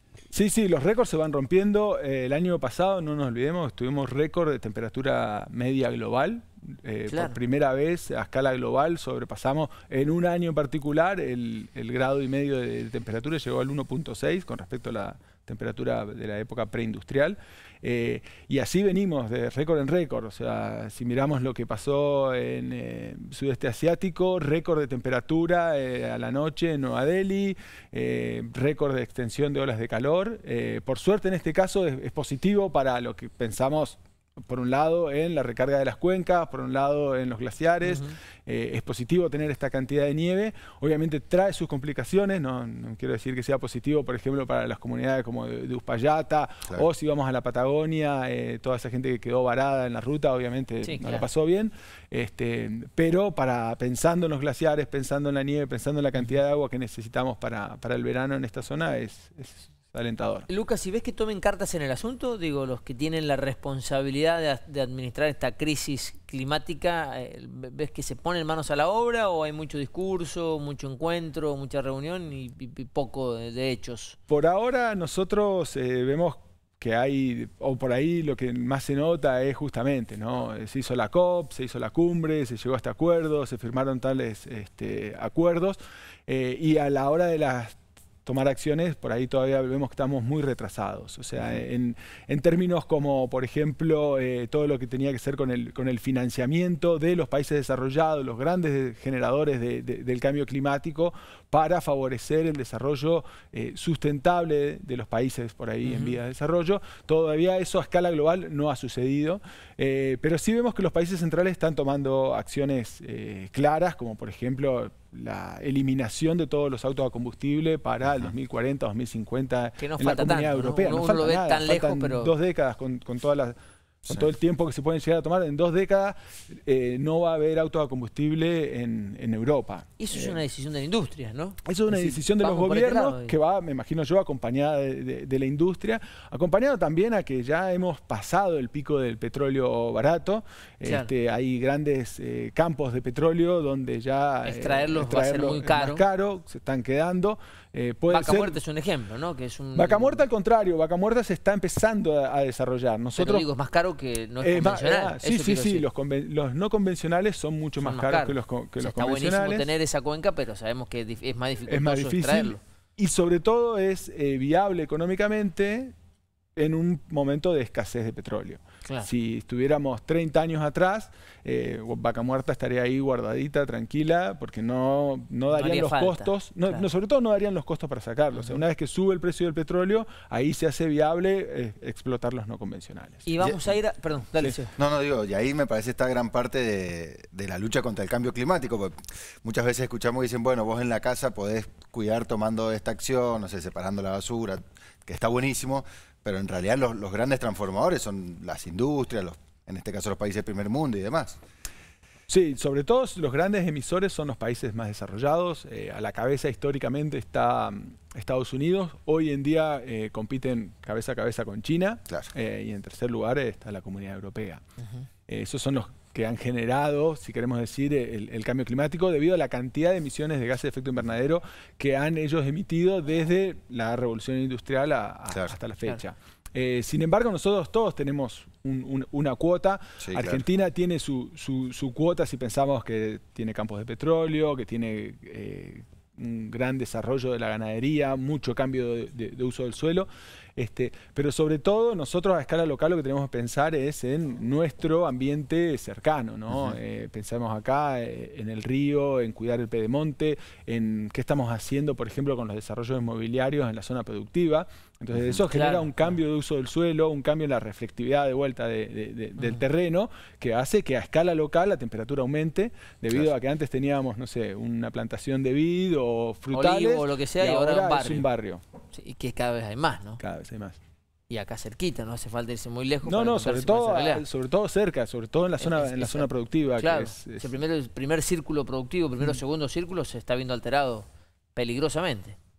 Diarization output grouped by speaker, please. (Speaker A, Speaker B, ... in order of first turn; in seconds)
Speaker A: 0.3-60.5, 74.3-123.5, 124.1-130.4, 131.6-148.6, 149.7-153.5, 154.4-159.7, 161.7-165.9, 166.6-183.2, 202.3-214.6, 215.3-268.6, 270.2-270.8, 273.0-277.5
Speaker B: 7.1-7.3, 37.8-38.1, 50.8-51.2, 60.5-74.2, 105.8-106.2, 119.8-122.3, 130.0-133.3, 140.8-141.1, 144.4-146.0, 148.1-150.2, 153.2-155.8, 157.8-162.6, 175.5-176.8, 178.3-178.6, 183.2-184.7, 255.5-256.1, 266.5-268.3, 268.9-270.2, 271.3-274.2, 275.6-282.4
Speaker C: 91.4-91.6, 183.4-183.7, 184.8-201.4, 225.3-225.6, 230.0-230.4, 246.5-246.8, 255.1-255.4